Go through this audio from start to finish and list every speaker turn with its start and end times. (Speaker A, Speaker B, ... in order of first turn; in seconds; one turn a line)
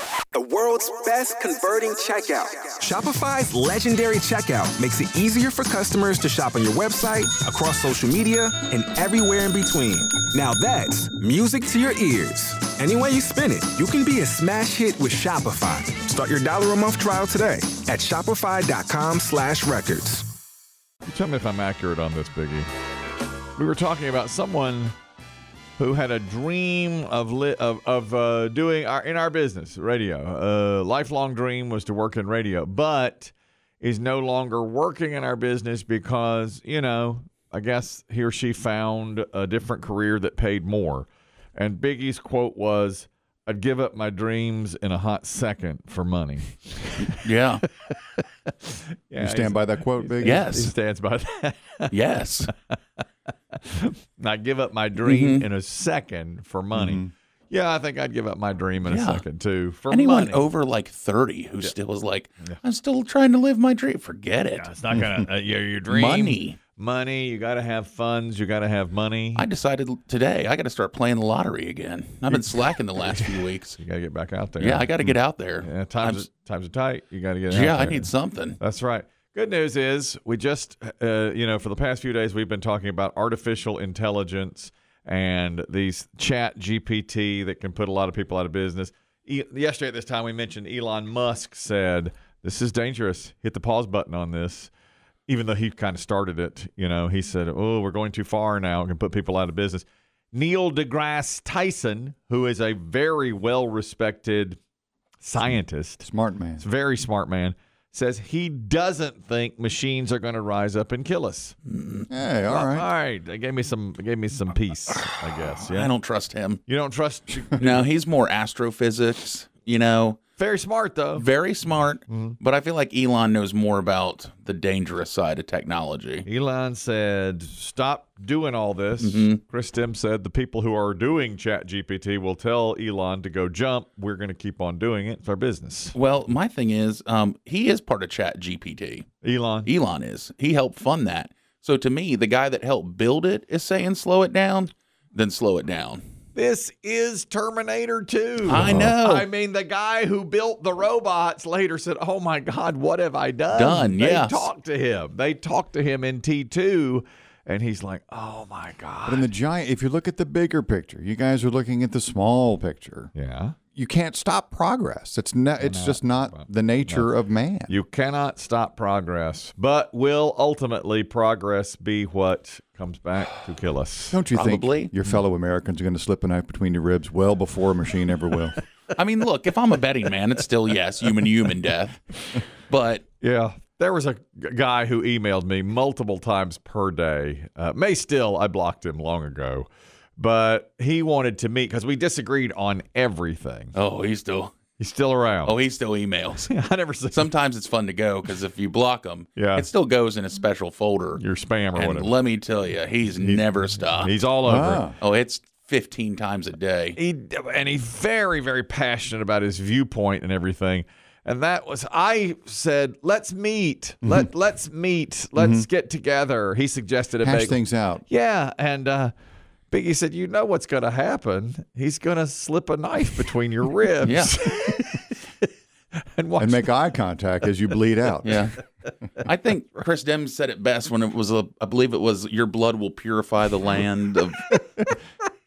Speaker A: 0.3-20.3
Speaker B: 21.1-22.7
Speaker B: 23.6-24.9
Speaker B: 25.8-47.2
Speaker C: 47.1-47.6
Speaker B: 48.6-52.0
Speaker D: 49.2-50.4
Speaker C: 50.2-50.7
Speaker C: 51.9-52.5
Speaker B: 53.5-60.4
Speaker C: 55.0-55.5
Speaker D: 56.7-57.1
Speaker C: 58.9-59.2
Speaker C: 59.9-64.7
Speaker B: 64.5-69.5
Speaker C: 65.9-66.6
Speaker C: 69.4-73.8
Speaker B: 73.8-94.7
Speaker C: 74.6-76.3
Speaker C: 77.5-78.6
Speaker B: 95.3-104.6
Speaker B: 105.2-111.6
Speaker D: 106.0-106.6
Speaker C: 111.7-112.1
Speaker D: 112.1-112.9
Speaker B: 112.5-115.9
Speaker C: 115.6-116.6
Speaker B: 116.7-117.9
Speaker C: 117.6-120.2
Speaker B: 120.4-121.3
Speaker C: 121.2-126.3
Speaker B: 122.1-122.4
Speaker B: 126.2-136.0
Speaker C: 129.0-129.4
Speaker C: 135.9-139.1
Speaker B: 139.2-139.7
Speaker C: 139.7-146.0
Speaker B: 146.3-159.3
Speaker C: 148.4-149.3
Speaker D: 148.5-148.9
Speaker C: 153.5-154.5
Speaker D: 159.1-163.1
Speaker B: 163.2-163.6
Speaker D: 163.8-167.8
Speaker B: 165.6-167.1
Speaker B: 167.7-174.2
Speaker D: 174.1-178.6
Speaker C: 174.3-174.9
Speaker C: 178.9-182.1
Speaker C: 182.7-183.0
Speaker B: 183.2-193.7
Speaker C: 193.8-194.5
Speaker B: 194.8-195.6
Speaker C: 195.4-196.5
Speaker B: 196.4-197.3
Speaker C: 197.1-201.2
Speaker B: 199.4-199.7
Speaker B: 201.2-202.1
Speaker C: 201.8-204.1
Speaker B: 203.2-204.9
Speaker D: 204.4-205.0
Speaker C: 205.0-207.0
Speaker B: 207.0-219.1
Speaker D: 214.0-214.3
Speaker D: 215.3-215.7
Speaker D: 217.2-218.0
Speaker B: 219.7-225.5
Speaker C: 224.0-224.4
Speaker B: 226.1-226.7
Speaker D: 226.4-228.5
Speaker C: 228.2-228.6
Speaker C: 229.2-234.5